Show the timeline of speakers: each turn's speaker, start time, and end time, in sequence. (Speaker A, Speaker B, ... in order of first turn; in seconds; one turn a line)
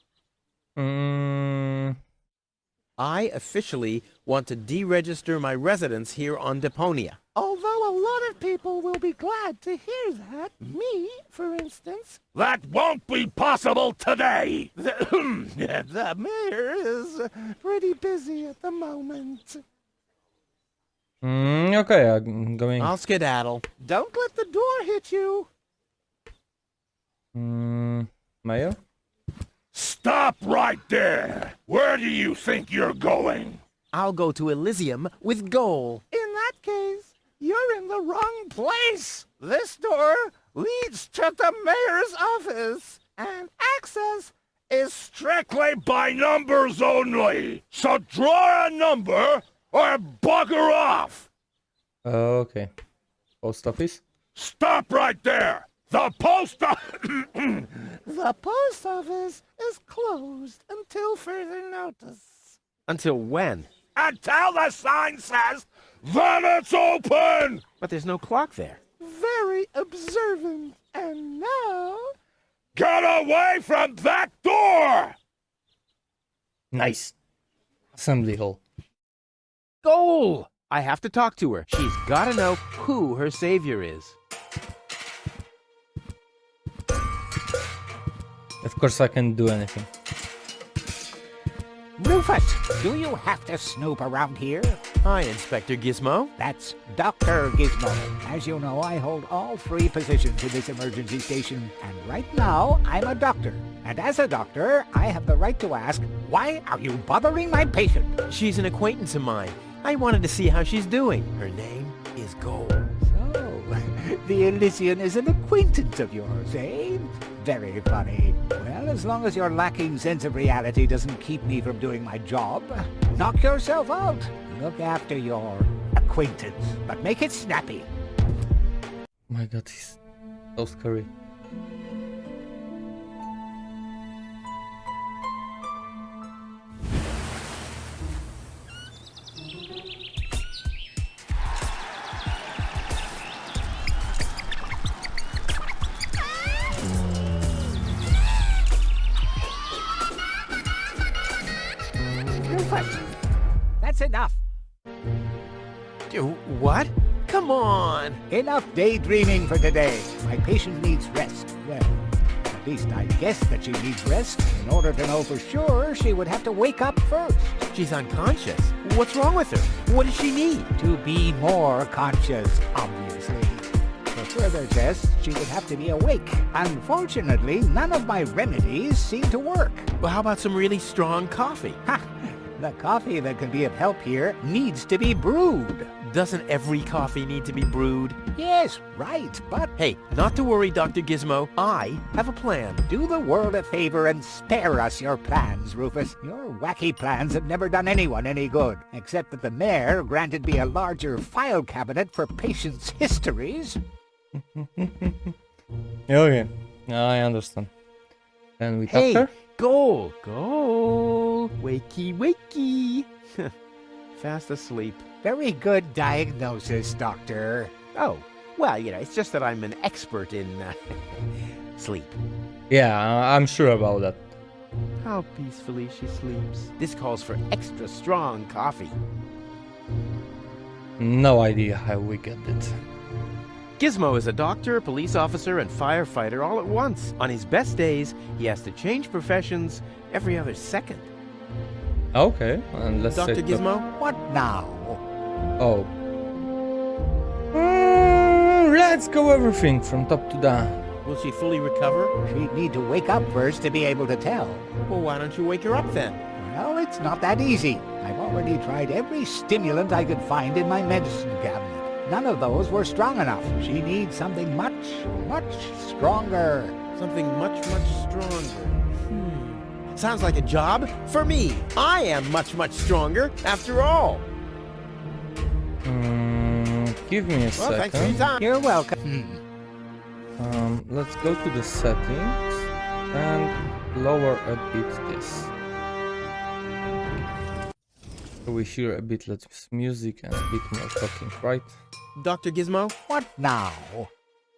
Speaker A: 0.8-2.0
Speaker B: 3.0-7.2
Speaker C: 7.3-19.6
Speaker A: 21.2-22.9
Speaker B: 22.8-23.7
Speaker C: 23.8-25.5
Speaker A: 27.3-28.8
Speaker C: 29.7-31.9
Speaker D: 30.0-30.9
Speaker D: 31.8-33.6
Speaker B: 33.9-36.0
Speaker C: 36.1-45.9
Speaker D: 45.9-50.9
Speaker C: 46.5-48.1
Speaker C: 49.6-50.2
Speaker C: 50.9-51.3
Speaker A: 52.0-52.7
Speaker A: 53.4-54.0
Speaker D: 54.4-57.5
Speaker C: 57.5-62.6
Speaker B: 62.9-63.7
Speaker C: 64.0-64.3
Speaker D: 64.0-67.6
Speaker C: 65.2-65.6
Speaker B: 67.8-68.8
Speaker C: 69.0-72.1
Speaker D: 72.8-75.2
Speaker A: 76.7-77.2
Speaker A: 78.0-78.6
Speaker B: 79.8-84.2
Speaker A: 88.6-89.9
Speaker E: 92.0-94.8
Speaker B: 95.0-96.3
Speaker E: 96.4-108.1
Speaker B: 108.3-112.9
Speaker E: 113.0-127.9
Speaker A: 129.3-130.0
Speaker A: 130.6-131.1
Speaker E: 152.3-153.2
Speaker E: 153.8-154.4
Speaker B: 156.1-158.2
Speaker E: 158.3-167.7
Speaker B: 167.7-170.7
Speaker E: 170.8-179.9
Speaker B: 180.0-181.8
Speaker E: 181.8-185.9
Speaker B: 186.0-188.2
Speaker E: 188.3-189.8
Speaker B: 189.8-192.8
Speaker E: 192.9-203.8
Speaker A: 204.4-205.3
Speaker A: 206.1-207.7
Speaker A: 208.6-209.3
Speaker B: 208.9-213.5
Speaker B: 214.2-215.0
Speaker E: 215.2-217.7
Speaker B: 217.9-222.2
Speaker A: 222.7-224.2
Speaker B: 225.0-229.0
Speaker A: 231.0-232.8
Speaker B: 233.8-241.1
Speaker A: 242.1-243.6
Speaker B: 243.1-243.9
Speaker E: 244.0-245.0
Speaker A: 245.6-245.9
Speaker A: 247.5-250.8
Speaker B: 251.0-252.1
Speaker E: 252.2-254.7
Speaker B: 254.8-256.2
Speaker E: 256.4-266.8
Speaker B: 266.9-274.3
Speaker A: 275.8-278.2
Speaker B: 277.6-278.5
Speaker E: 278.4-279.4
Speaker A: 280.4-285.5
Speaker A: 288.5-291.8
Speaker B: 292.2-292.9
Speaker E: 293.1-294.1